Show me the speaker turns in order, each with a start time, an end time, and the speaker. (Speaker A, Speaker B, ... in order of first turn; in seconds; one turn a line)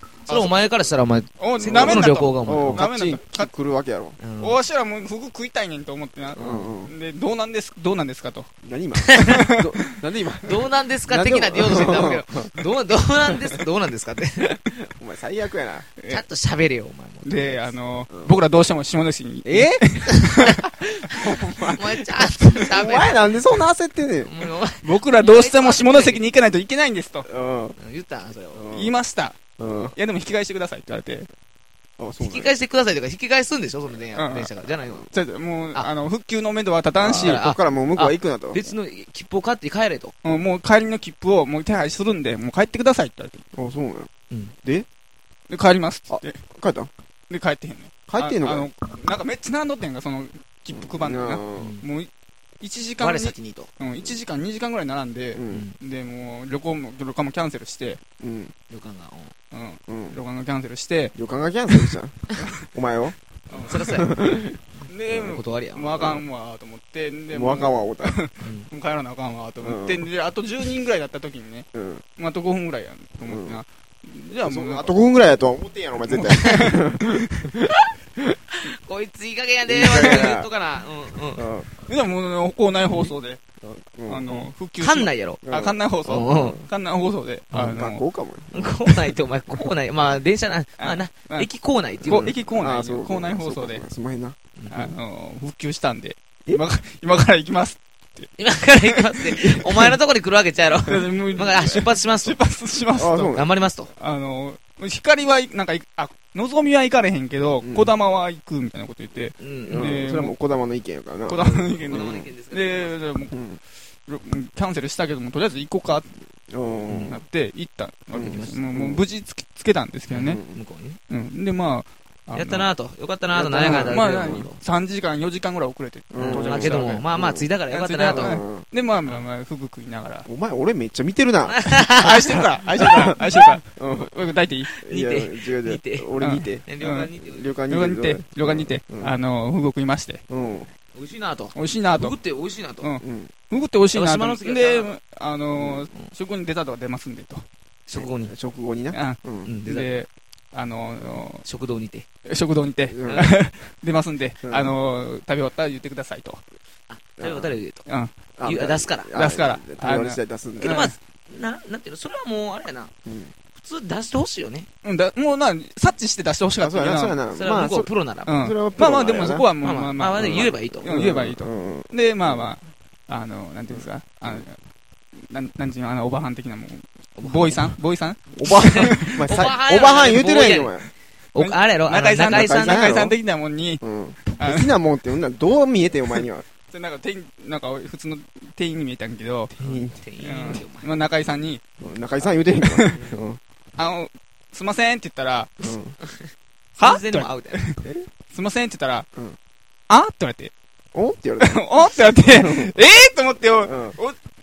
Speaker A: 0.3-0.6
Speaker B: 0.3-2.9
Speaker A: 1.4-3.5
Speaker C: 1.6-4.2
Speaker B: 4.2-4.6
Speaker A: 4.4-8.5
Speaker C: 6.3-6.9
Speaker B: 6.4-6.7
Speaker C: 8.6-12.6
Speaker B: 9.1-9.4
Speaker A: 9.2-9.7
Speaker B: 10.4-14.6
Speaker C: 13.2-13.7
Speaker C: 14.4-15.9
Speaker A: 16.0-16.2
Speaker B: 16.1-17.8
Speaker A: 17.2-20.6
Speaker C: 18.1-18.4
Speaker C: 19.4-19.9
Speaker B: 20.1-20.6
Speaker C: 20.4-24.3
Speaker B: 21.2-23.4
Speaker B: 24.2-26.2
Speaker A: 24.8-27.3
Speaker C: 27.3-27.8
Speaker B: 27.8-28.6
Speaker C: 28.5-28.9
Speaker A: 28.7-29.4
Speaker C: 29.6-29.9
Speaker A: 29.9-31.3
Speaker C: 32.0-32.5
Speaker B: 32.2-35.1
Speaker A: 34.1-34.5
Speaker A: 35.1-37.4
Speaker C: 37.0-38.6
Speaker B: 37.0-40.2
Speaker A: 40.2-43.4
Speaker C: 43.5-44.1
Speaker A: 45.5-46.4
Speaker C: 46.1-46.9
Speaker A: 47.3-52.1
Speaker C: 48.1-48.7
Speaker C: 50.7-51.7
Speaker B: 51.6-51.9
Speaker A: 52.6-58.0
Speaker B: 53.0-53.7
Speaker C: 55.4-55.7
Speaker B: 55.5-55.8
Speaker C: 58.2-58.5
Speaker B: 58.7-59.3
Speaker A: 59.5-61.1
Speaker C: 59.9-60.2
Speaker C: 61.2-63.1
Speaker A: 61.7-62.7
Speaker B: 63.5-64.1
Speaker A: 63.5-64.0
Speaker C: 63.8-64.6
Speaker A: 64.9-75.0
Speaker B: 65.1-66.2
Speaker C: 65.1-65.4
Speaker C: 67.3-68.2
Speaker B: 68.4-68.7
Speaker C: 69.6-70.1
Speaker C: 71.7-72.0
Speaker C: 73.2-73.6
Speaker C: 74.4-78.3
Speaker A: 76.1-76.8
Speaker B: 78.6-81.5
Speaker C: 79.7-80.5
Speaker A: 79.9-80.3
Speaker C: 81.3-81.7
Speaker A: 81.8-83.4
Speaker C: 83.6-84.5
Speaker A: 84.1-88.0
Speaker B: 84.8-85.4
Speaker C: 85.4-86.7
Speaker B: 86.0-86.6
Speaker C: 87.5-89.2
Speaker B: 88.5-92.3
Speaker A: 90.8-91.5
Speaker A: 92.0-93.8
Speaker C: 92.0-94.4
Speaker B: 94.6-95.0
Speaker A: 94.7-98.3
Speaker B: 98.4-102.4
Speaker C: 99.3-99.8
Speaker A: 100.8-103.4
Speaker C: 103.0-103.5
Speaker B: 103.3-103.9
Speaker A: 104.0-110.3
Speaker C: 107.6-107.9
Speaker B: 109.4-110.0
Speaker C: 109.7-112.3
Speaker A: 111.3-113.3
Speaker B: 111.4-113.0
Speaker C: 113.3-113.6
Speaker A: 114.1-116.1
Speaker C: 116.5-117.2
Speaker A: 116.9-120.4
Speaker C: 118.1-119.0
Speaker B: 118.3-118.5
Speaker B: 120.1-121.0
Speaker C: 120.2-120.6
Speaker A: 121.1-122.7
Speaker B: 122.3-124.6
Speaker C: 123.3-124.5
Speaker A: 123.6-127.0
Speaker C: 126.1-127.5
Speaker B: 126.2-128.4
Speaker A: 127.7-130.3
Speaker C: 128.1-128.7
Speaker C: 130.3-134.1
Speaker B: 131.5-132.2
Speaker A: 132.0-134.7
Speaker B: 134.7-136.1
Speaker C: 134.8-136.7
Speaker A: 136.2-137.1
Speaker B: 136.7-137.6
Speaker C: 137.2-139.2
Speaker A: 137.7-140.2
Speaker C: 140.3-140.7
Speaker B: 140.9-143.0
Speaker A: 141.6-142.2
Speaker A: 142.8-147.4
Speaker C: 143.0-143.3
Speaker B: 143.9-144.9
Speaker C: 145.5-145.9
Speaker B: 147.9-148.3
Speaker C: 147.9-149.5
Speaker A: 148.9-151.4
Speaker B: 149.4-150.0
Speaker B: 151.4-152.1
Speaker A: 152.3-156.4
Speaker C: 152.9-153.3
Speaker C: 154.4-154.8
Speaker B: 156.9-157.9
Speaker C: 157.2-157.6
Speaker A: 157.9-158.1
Speaker C: 158.4-160.9
Speaker B: 158.4-159.1
Speaker A: 159.1-160.9
Speaker B: 160.6-162.9
Speaker C: 163.1-163.3
Speaker B: 163.6-164.7
Speaker A: 164.8-167.2
Speaker C: 166.6-169.5
Speaker B: 167.3-168.4
Speaker A: 168.3-174.6
Speaker B: 169.6-171.1
Speaker C: 170.2-172.5
Speaker C: 173.7-174.4
Speaker A: 175.2-179.2
Speaker B: 177.2-177.8
Speaker C: 178.3-180.9
Speaker B: 178.4-180.8
Speaker B: 181.3-182.9
Speaker A: 181.3-183.8
Speaker C: 182.2-183.2
Speaker C: 183.8-186.4
Speaker A: 184.3-184.8
Speaker A: 186.1-189.6
Speaker C: 189.6-190.0
Speaker B: 189.6-191.0
Speaker A: 190.2-191.6
Speaker C: 191.8-193.4
Speaker A: 192.2-193.1
Speaker A: 193.8-195.6
Speaker C: 195.6-196.0
Speaker B: 196.0-197.7
Speaker A: 196.8-197.8
Speaker C: 197.8-198.1
Speaker A: 198.3-199.1
Speaker A: 199.9-200.5
Speaker C: 200.9-202.7
Speaker A: 201.4-204.2
Speaker C: 203.7-204.0